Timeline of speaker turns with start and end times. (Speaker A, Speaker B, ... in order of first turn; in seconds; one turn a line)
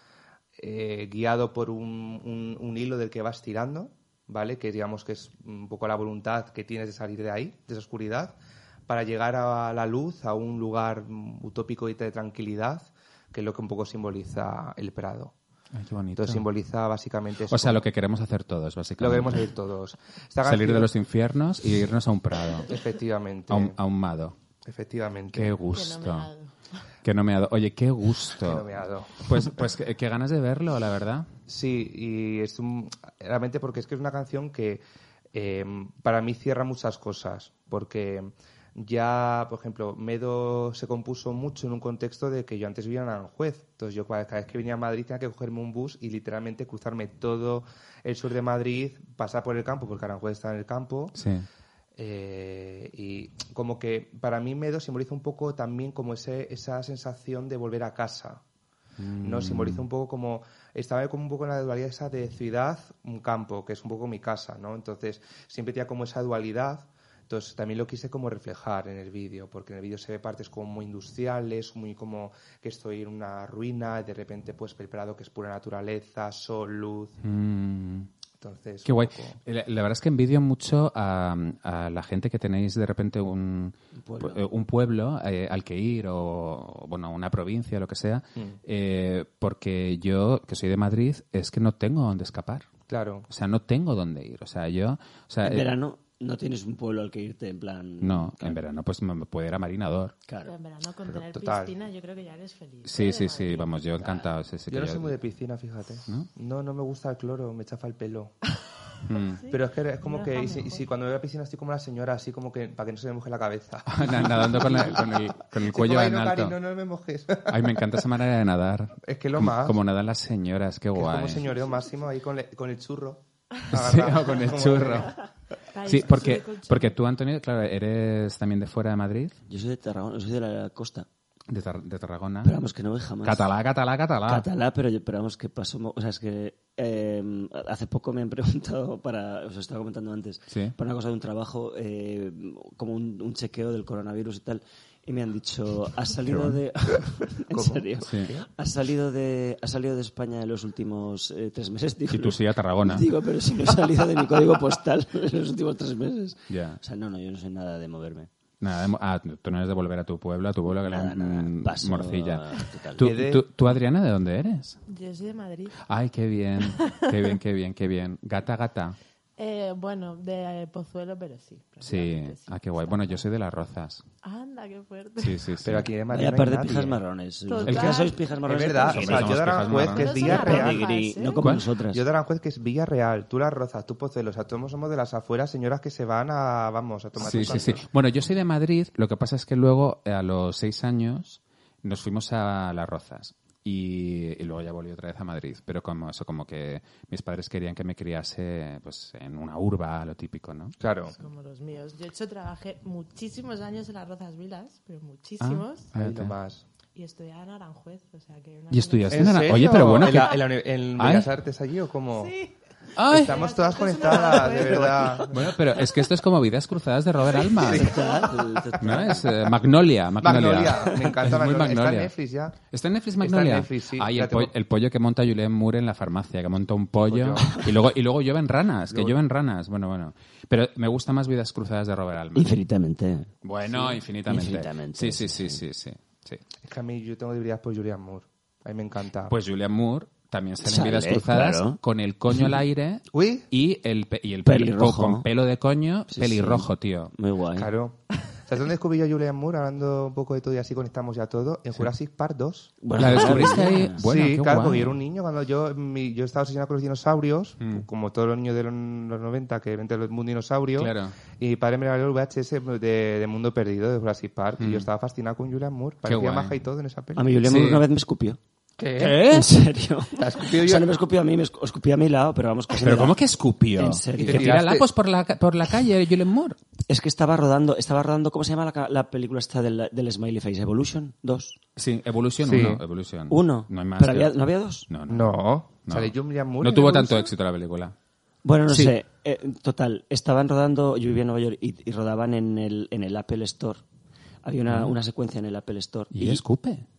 Speaker A: 0.6-15.3
Speaker B: 15.8-16.4
Speaker A: 16.1-17.9
Speaker B: 17.5-19.5
Speaker A: 19.0-20.9
Speaker B: 20.4-22.7
Speaker A: 22.6-23.8
Speaker B: 23.5-24.3
Speaker A: 24.6-25.6
Speaker B: 25.3-26.3
Speaker C: 25.7-26.5
Speaker B: 27.0-28.7
Speaker A: 28.4-29.5
Speaker B: 29.2-31.3
Speaker A: 31.5-51.2
Speaker B: 51.1-51.4
Speaker A: 52.0-58.4
Speaker B: 59.0-59.8
Speaker A: 59.2-77.2
Speaker B: 77.2-78.1
Speaker A: 78.4-79.4
Speaker B: 78.8-92.7
Speaker D: 84.0-84.4
Speaker A: 92.9-93.3
Speaker B: 93.3-95.8
Speaker D: 95.4-98.6
Speaker B: 98.0-100.1
Speaker D: 100.3-100.5
Speaker C: 100.4-103.7
Speaker A: 101.3-101.7
Speaker B: 102.8-105.2
Speaker D: 104.0-104.3
Speaker A: 104.7-108.4
Speaker B: 109.0-109.4
Speaker C: 109.4-110.8
Speaker A: 109.5-117.9
Speaker B: 113.9-116.6
Speaker B: 117.5-121.4
Speaker A: 119.0-119.8
Speaker A: 120.9-125.1
Speaker B: 123.7-125.1
Speaker C: 125.7-127.0
Speaker B: 125.8-129.3
Speaker D: 129.5-131.1
Speaker B: 131.5-132.5
Speaker D: 132.4-133.4
Speaker B: 133.2-134.4
Speaker D: 134.2-158.3
Speaker B: 140.5-140.8
Speaker B: 146.3-146.6
Speaker A: 147.5-148.5
Speaker B: 148.0-148.3
Speaker B: 152.1-153.1
Speaker B: 156.5-156.8
Speaker B: 158.6-164.8
Speaker D: 160.8-163.0
Speaker A: 163.0-163.4
Speaker C: 164.9-165.8
Speaker B: 165.8-169.0
Speaker C: 166.8-167.1
Speaker C: 169.4-173.2
Speaker B: 171.8-174.0
Speaker C: 174.2-175.4
Speaker B: 175.2-175.9
Speaker A: 175.6-177.0
Speaker D: 176.1-182.0
Speaker C: 177.5-179.2
Speaker B: 177.6-178.0
Speaker A: 178.4-180.9
Speaker B: 178.9-180.4
Speaker C: 179.8-181.4
Speaker B: 181.3-181.7
Speaker A: 181.9-187.8
Speaker B: 187.2-200.8
Speaker D: 187.3-187.7
Speaker A: 200.8-201.1
Speaker C: 201.1-205.8
Speaker B: 205.4-206.3
Speaker A: 205.9-206.7
Speaker C: 206.9-209.5
Speaker B: 208.7-211.3
Speaker A: 209.1-212.3
Speaker C: 212.2-212.5
Speaker B: 212.9-213.4
Speaker A: 213.1-215.4
Speaker C: 213.1-215.4
Speaker B: 215.3-218.0
Speaker D: 217.4-219.5
Speaker A: 217.6-218.0
Speaker C: 217.8-218.7
Speaker B: 218.8-222.1
Speaker A: 220.2-222.6
Speaker B: 222.7-232.6
Speaker A: 223.2-224.5
Speaker A: 227.0-227.6
Speaker A: 228.9-229.2
Speaker D: 232.3-235.6
Speaker B: 233.4-236.4
Speaker A: 236.6-239.3
Speaker B: 239.3-247.1
Speaker D: 240.6-241.8
Speaker A: 243.1-243.5
Speaker D: 244.4-245.2
Speaker D: 246.1-247.7
Speaker A: 247.5-267.3
Speaker D: 252.8-254.0
Speaker B: 252.9-255.0
Speaker B: 257.6-257.9
Speaker B: 260.8-261.1
Speaker B: 264.6-264.9
Speaker B: 266.0-266.6
Speaker D: 267.1-268.4
Speaker B: 267.4-267.8
Speaker A: 268.8-269.3
Speaker B: 269.0-269.5
Speaker D: 269.2-273.2
Speaker A: 270.1-270.9
Speaker B: 272.8-276.6
Speaker D: 273.8-274.5
Speaker A: 274.2-274.9
Speaker D: 276.9-281.6
Speaker B: 281.8-287.9
Speaker A: 282.4-282.8
Speaker D: 283.3-284.9
Speaker A: 285.1-287.3
Speaker D: 288.4-293.8
Speaker B: 288.7-288.9
Speaker D: 294.4-296.4
Speaker B: 294.6-294.9
Speaker B: 296.1-296.9